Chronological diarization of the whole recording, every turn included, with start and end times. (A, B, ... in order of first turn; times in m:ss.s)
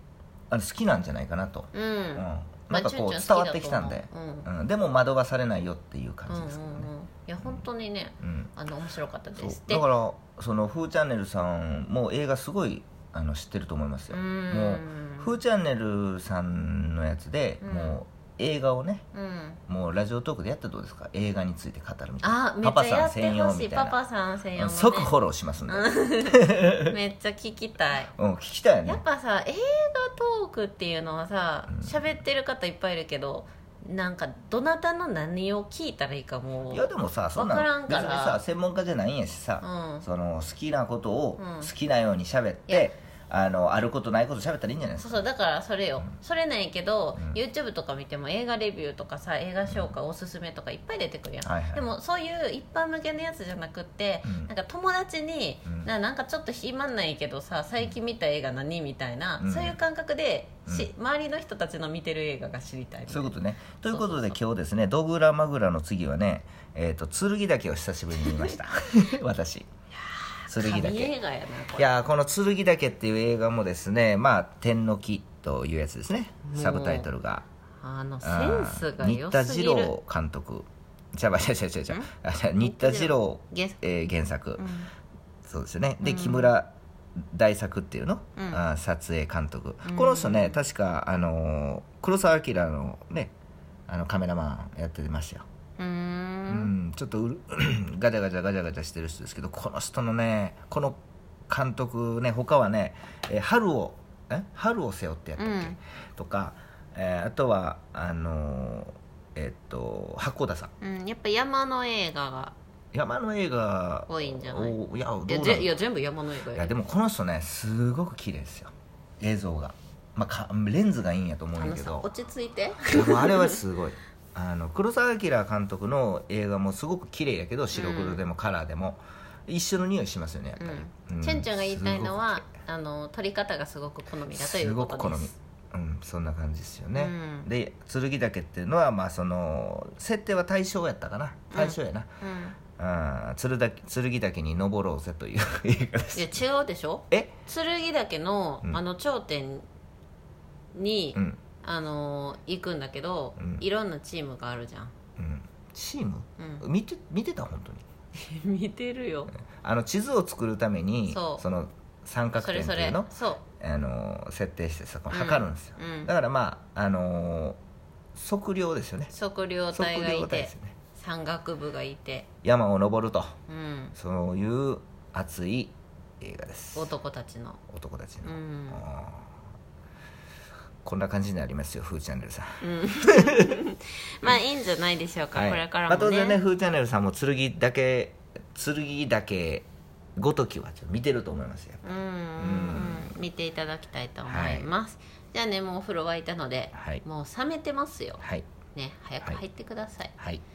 0:00.5-0:06.9 A
0:01.7-0:04.5 B
0:06.3-0:09.8 B
0:08.2-0:08.5 A
0:09.3-0:19.0 A
0:14.1-0:15.3 B
0:17.6-0:18.0 B
0:19.1-0:19.6 B
0:19.7-0:24.0 A
0:22.2-0:25.1 B
0:24.6-0:27.0 A
0:25.7-0:28.1 B
0:28.2-0:29.0 A
0:28.8-0:38.4 B
0:31.7-0:32.0 A
0:36.7-0:45.2 A
0:39.6-0:40.0 B
0:41.4-0:41.7 B
0:45.0-1:03.4 B
0:49.6-0:49.9 A
0:51.4-0:51.8 A
0:54.2-0:54.5 A
0:55.6-0:55.9 A
0:59.4-0:59.8 A
1:03.1-1:09.7 A
1:03.9-1:04.4 B
1:08.2-1:08.5 B
1:10.1-1:11.9 B
1:10.5-1:11.1 A
1:11.8-1:17.4 A
1:16.4-1:17.1 B
1:17.8-1:19.9 B
1:18.2-1:24.7 A
1:22.6-1:23.8 B
1:24.6-1:24.9 B
1:25.4-1:33.3 A
1:26.0-1:26.5 B
1:28.4-1:28.6 B
1:29.8-1:30.6 B
1:33.9-1:35.4 A
1:35.8-1:36.7 B
1:36.5-1:41.0 A
1:41.5-1:50.7 A
1:45.4-1:45.8 B
1:50.8-1:52.5 B
1:52.9-1:55.7 A
1:54.1-1:56.8 B
1:56.5-2:02.1 A
2:01.6-2:03.6 B
2:02.9-2:12.4 A
2:07.7-2:08.2 B
2:10.6-2:15.4 B
2:14.3-2:22.1 A
2:16.9-2:17.5 B
2:21.5-2:22.6 B
2:22.8-2:26.4 A
2:26.1-2:29.6 B
2:30.7-2:34.9 B
2:31.1-2:31.4 A
2:33.4-2:33.6 A
2:35.2-2:37.8 A
2:36.4-2:36.6 B
2:38.1-2:39.3 B
2:39.6-2:47.6 A
2:41.1-2:41.4 B
2:42.4-2:43.4 B
2:45.1-2:46.1 B
2:48.1-2:49.1 A
2:49.1-2:52.3 B
2:49.7-2:50.7 A
2:52.4-2:53.4 A
2:53.5-2:53.9 B
2:54.0-2:56.9 A
2:56.7-2:57.6 B
2:57.7-2:59.3 A
2:58.2-2:58.8 B
3:00.8-3:03.6 A
3:02.6-3:06.4 B
3:05.3-3:13.1 A
3:11.8-3:18.2 B
3:14.2-3:14.7 A
3:16.7-3:17.0 A
3:18.2-3:18.5 A
3:18.7-3:20.1 B